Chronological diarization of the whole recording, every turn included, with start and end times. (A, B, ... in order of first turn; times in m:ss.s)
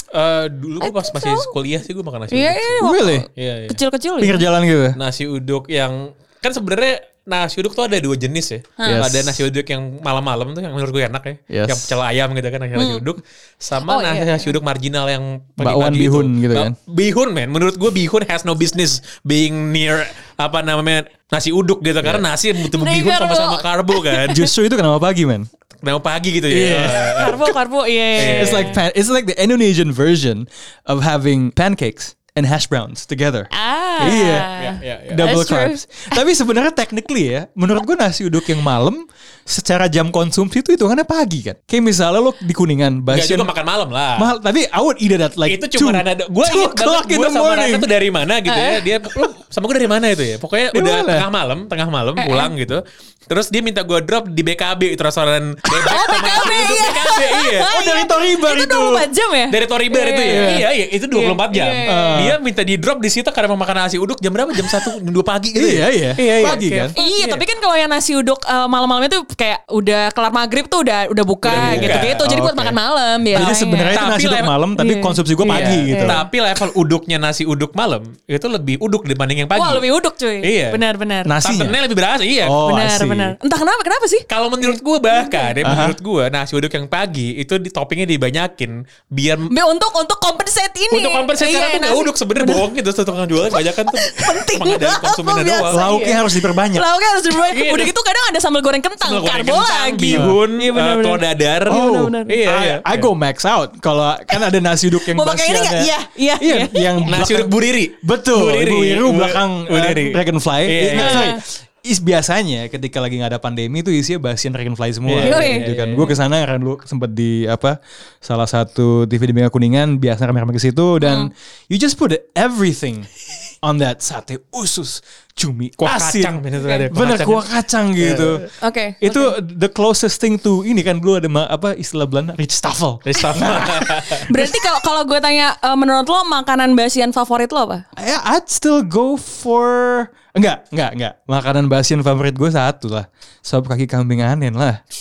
0:00.1-0:02.8 A
0:00.8-0:01.5 B
0:02.3-0:04.4 B
0:02.8-0:03.3 C
0:03.4-0:03.8 A
0:04.2-0:05.0 C
0:05.0-0:24.5 A
0:08.8-0:09.1 B
0:08.9-0:09.4 C
0:11.5-0:11.9 C
0:12.8-0:13.0 B
0:13.9-0:14.5 B
0:15.6-0:16.8 C
0:22.6-0:24.4 B
0:24.3-0:25.5 C
0:25.8-0:27.5 A
0:26.5-0:27.2 C
0:26.9-0:28.8 B
0:28.2-0:28.8 A
0:28.2-0:33.5 C
0:33.5-0:36.2 B
0:34.0-0:34.5 C
0:34.0-0:35.3 A
0:35.1-0:43.5 C
0:43.1-0:44.3 A
0:44.2-0:47.9 C
0:45.5-0:57.7 A
0:48.5-0:48.9 B
0:50.7-0:51.3 C
0:52.2-0:52.5 B
0:55.7-1:02.3 B
0:57.7-0:59.1 C
0:59.5-1:07.4 A
1:00.3-1:00.7 C
1:01.9-1:02.4 C
1:05.6-1:06.9 C
1:07.0-1:14.1 B
1:11.4-1:12.3 A
1:11.5-1:12.8 C
1:13.3-1:16.3 C
1:13.3-1:14.5 A
1:14.8-1:16.2 B
1:15.5-1:19.9 A
1:19.6-1:21.3 B
1:20.4-1:20.8 A
1:21.2-1:21.8 C
1:21.4-1:22.6 A
1:22.4-1:23.4 C
1:22.6-1:25.9 B
1:24.3-1:29.5 A
1:25.6-1:26.0 C
1:29.5-1:32.7 B
1:30.9-1:36.1 A
1:33.9-1:42.4 B
1:35.7-1:36.8 C
1:37.5-1:37.9 A
1:39.0-1:43.1 A
1:40.1-1:40.4 C
1:41.7-2:03.1 C
1:45.0-1:47.2 B
1:47.1-1:51.4 A
1:50.9-1:51.4 B
1:55.1-1:56.2 A
1:55.2-1:55.7 B
2:01.0-2:01.3 B
2:03.6-2:08.4 C
2:05.8-2:08.5 A
2:08.6-2:09.4 B
2:09.0-2:14.5 C
2:13.0-2:14.3 A
2:13.4-2:17.8 B
2:18.0-2:24.8 C